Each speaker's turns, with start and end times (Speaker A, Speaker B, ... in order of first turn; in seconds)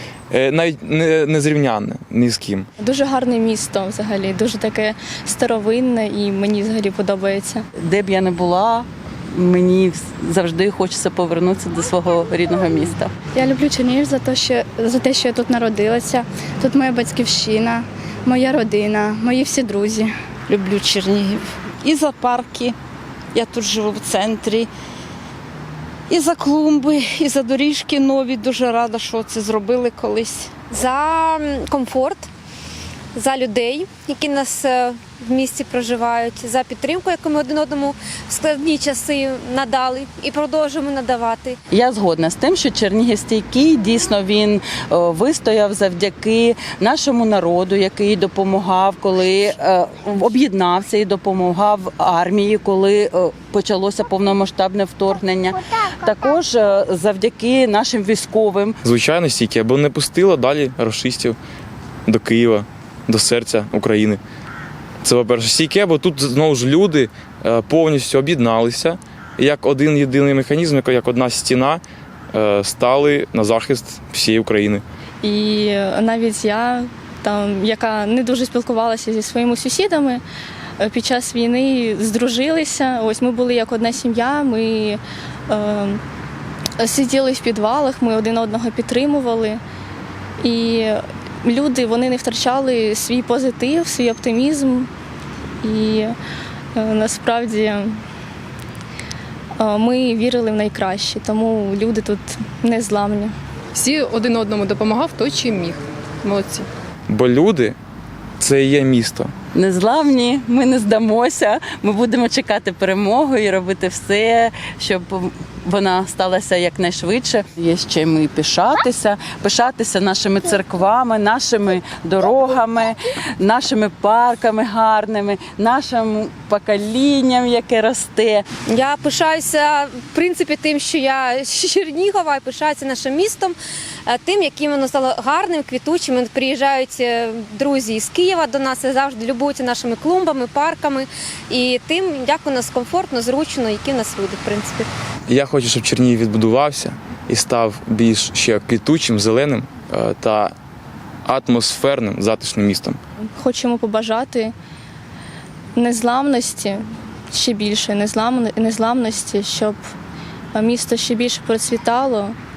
Speaker A: 0.3-2.7, 58.8-61.4, 62.1-64.2, 65.0-74.8, 107.1-107.8, 108.4-109.3, 145.3-150.5, 151.2-153.0
Speaker B: 2.8-7.6, 75.2-80.2, 80.8-86.0, 86.8-89.6, 90.4-94.9, 95.6-96.2, 96.8-98.0, 99.6-103.3, 153.4-154.5, 155.8-159.8, 160.5-162.3
Speaker C: 7.8-13.1, 41.7-58.8, 109.5-128.4
Speaker D: 13.4-17.8, 18.3-20.1
Speaker E: 20.5-22.8, 23.3-24.7, 26.1-30.6
Speaker F: 30.7-32.3, 33.1-41.6, 128.7-133.6, 134.1-144.9
Speaker G: 103.8-106.7